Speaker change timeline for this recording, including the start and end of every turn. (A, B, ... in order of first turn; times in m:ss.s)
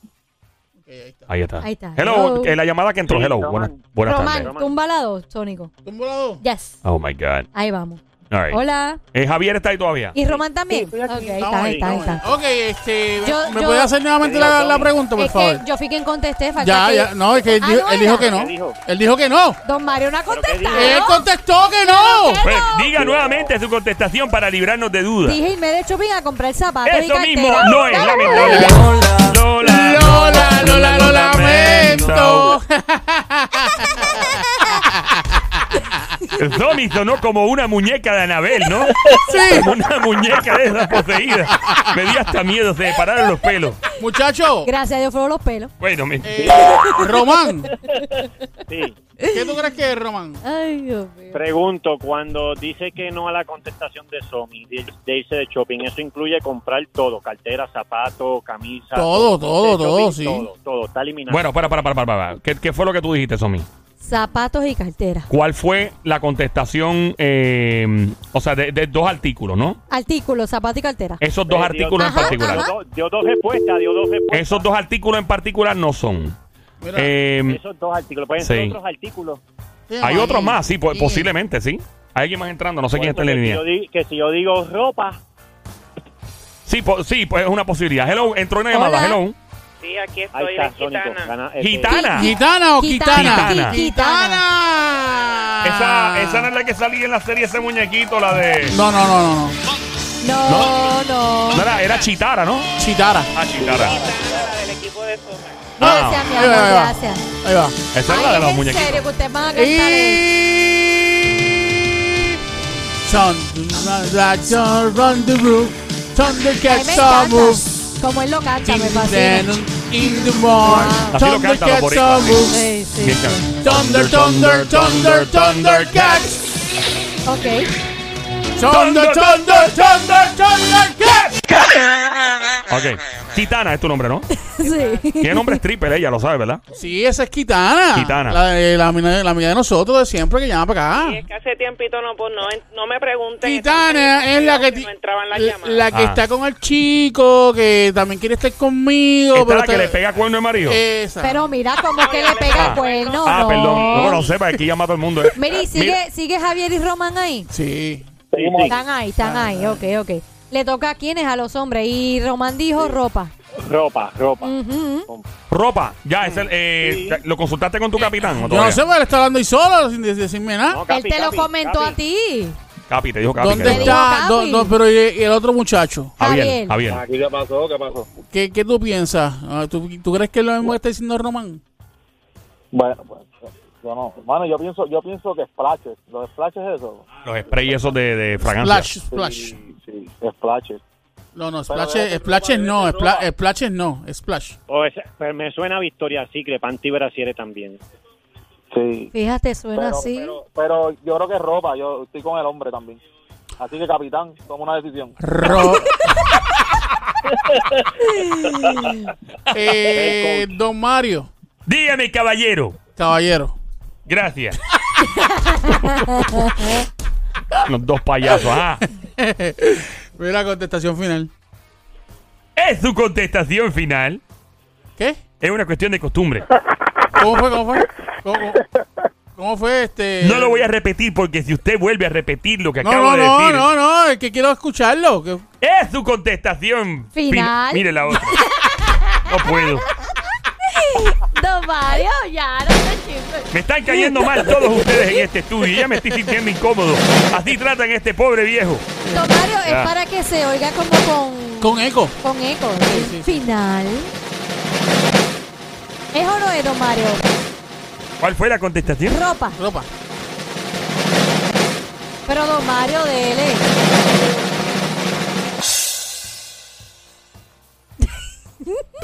0:00.8-0:01.3 A
0:01.3-0:04.5 B
0:01.6-0:02.6 C
0:03.0-0:04.7 D
0:04.0-0:05.7 C
0:05.8-0:06.4 A
0:06.4-0:06.8 C
0:06.8-0:07.5 B
0:07.5-0:09.0 C
0:08.3-0:08.6 B
0:09.1-0:10.2 B
0:10.1-0:12.3 C
0:10.7-0:11.4 E
0:11.4-0:15.6 A
0:11.6-0:11.9 D
0:13.2-0:13.9 C
0:14.2-0:14.9 D
0:15.2-0:18.3 C
0:16.6-0:19.6 A
0:18.1-0:18.8 D
0:19.6-0:21.2 C
0:20.3-0:21.0 D
0:20.7-0:22.4 A
0:21.8-0:23.0 C
0:22.4-0:25.4 B
0:25.2-0:28.8 C
0:26.8-0:32.6 B
0:28.2-0:28.9 A
0:29.6-0:35.6 A
0:36.3-0:43.8 B
0:39.1-0:39.7 A
0:41.4-0:42.2 A
0:44.0-0:44.7 A
0:44.6-0:45.7 C
0:45.8-0:46.5 B
0:46.2-0:47.7 A
0:46.4-0:46.9 E
0:46.6-0:48.3 C
0:48.7-0:49.0 D
0:49.2-0:49.5 C
0:49.3-0:50.4 A
0:50.4-0:51.4 C
0:51.3-1:01.5 D
0:58.9-1:00.4 A
1:01.3-1:03.7 B
1:04.0-1:05.3 C
1:05.3-1:09.8 B
1:09.9-1:11.2 C
1:11.2-1:12.7 B
1:11.5-1:14.6 D
1:12.0-1:12.7 C
1:14.3-1:16.4 B
1:16.8-1:17.1 A
1:17.0-1:17.6 B
1:17.4-1:19.4 D
1:18.4-1:18.8 B
1:19.9-1:21.3 A
1:20.0-1:23.6 B
1:22.9-1:25.2 D
1:26.6-1:29.4 B
1:28.7-1:29.2 C
1:29.8-1:31.3 F
1:30.3-1:32.0 D
1:31.6-1:32.3 B
1:31.9-1:34.4 C
1:32.1-1:36.5 A
1:33.1-1:33.8 B
1:35.6-1:38.8 B
1:38.7-1:39.6 A
1:40.2-1:41.7 C
1:40.4-1:40.8 B
1:41.5-1:42.7 B
1:42.8-1:43.3 A
1:43.3-1:44.0 B
1:43.6-1:44.5 E
1:43.8-1:45.7 F
1:45.8-1:47.2 C
1:45.8-1:46.3 B
1:45.8-1:47.8 A
1:47.9-1:49.0 B
1:48.0-1:50.2 C
1:49.5-1:52.4 A
1:53.0-1:57.9 A
1:56.7-1:59.6 C
1:58.6-2:02.6 A
2:00.6-2:01.2 C
2:01.1-2:06.2 B
2:02.5-2:03.4 C
2:03.6-2:06.5 A
2:07.2-2:07.7 C
2:08.6-2:11.4 A
2:08.7-2:10.0 B
2:12.7-2:14.3 B
2:14.4-2:15.6 C
2:15.0-2:16.6 B
2:16.7-2:21.2 A
2:17.9-2:18.4 B
2:20.9-2:25.9 F
2:23.4-2:30.0 A
2:25.9-2:26.2 B
2:29.3-2:30.8 B
2:30.6-2:31.5 A
2:31.2-2:34.3 C
2:31.8-2:34.3 F
2:32.5-2:36.0 B
2:35.3-2:37.5 C
2:37.5-2:38.0 A
2:38.3-2:38.8 E
2:38.3-2:38.8 D
2:38.7-2:43.3 C
2:39.2-2:39.8 A
2:43.6-2:44.5 D
2:44.4-2:45.1 C
2:45.5-2:48.8 B
2:46.8-2:47.1 E
2:48.3-2:50.8 A
2:50.7-2:52.0 D
2:50.9-2:52.6 C
2:52.9-2:54.0 B
2:53.3-2:56.2 A
2:53.6-2:54.7 C
2:56.2-2:57.0 B
2:56.2-2:56.8 C
2:56.9-2:58.1 E
2:58.3-3:01.6 A
3:02.7-3:07.1 E
3:07.2-3:09.0 B
3:08.4-3:09.6 A
3:09.1-3:10.8 E
3:11.3-3:14.6 A
3:11.7-3:13.3 E
3:14.7-3:17.8 D
3:18.7-3:19.1 E
3:19.1-3:20.4 C
3:19.7-3:23.0 E
3:23.6-3:25.2 E
3:25.2-3:26.0 A
3:28.1-3:29.0 C
3:29.5-3:31.3 A
3:29.9-3:30.5 D
3:31.6-3:32.8 B
3:33.0-3:33.6 A
3:34.1-3:34.6 B
3:35.0-3:36.8 C
3:35.9-3:36.5 B
3:37.5-3:38.8 B
3:39.0-3:41.3 A
3:42.6-3:44.2 B
3:45.4-3:46.5 B
3:47.1-3:48.6 A
3:49.4-3:50.7 A
3:50.2-3:53.7 B
3:52.8-3:55.4 A
3:55.6-3:58.4 B
3:57.1-3:59.7 C
3:59.2-3:59.8 B
4:00.7-4:05.2 C
4:03.5-4:08.9 B
4:09.0-4:09.3 A
4:09.1-4:14.1 C
4:09.6-4:09.9 B
4:11.6-4:12.1 A
4:12.8-4:13.4 A
4:16.1-4:17.2 C
4:18.2-4:19.2 B
4:19.1-4:19.6 C
4:19.5-4:19.9 A
4:22.3-4:23.7 C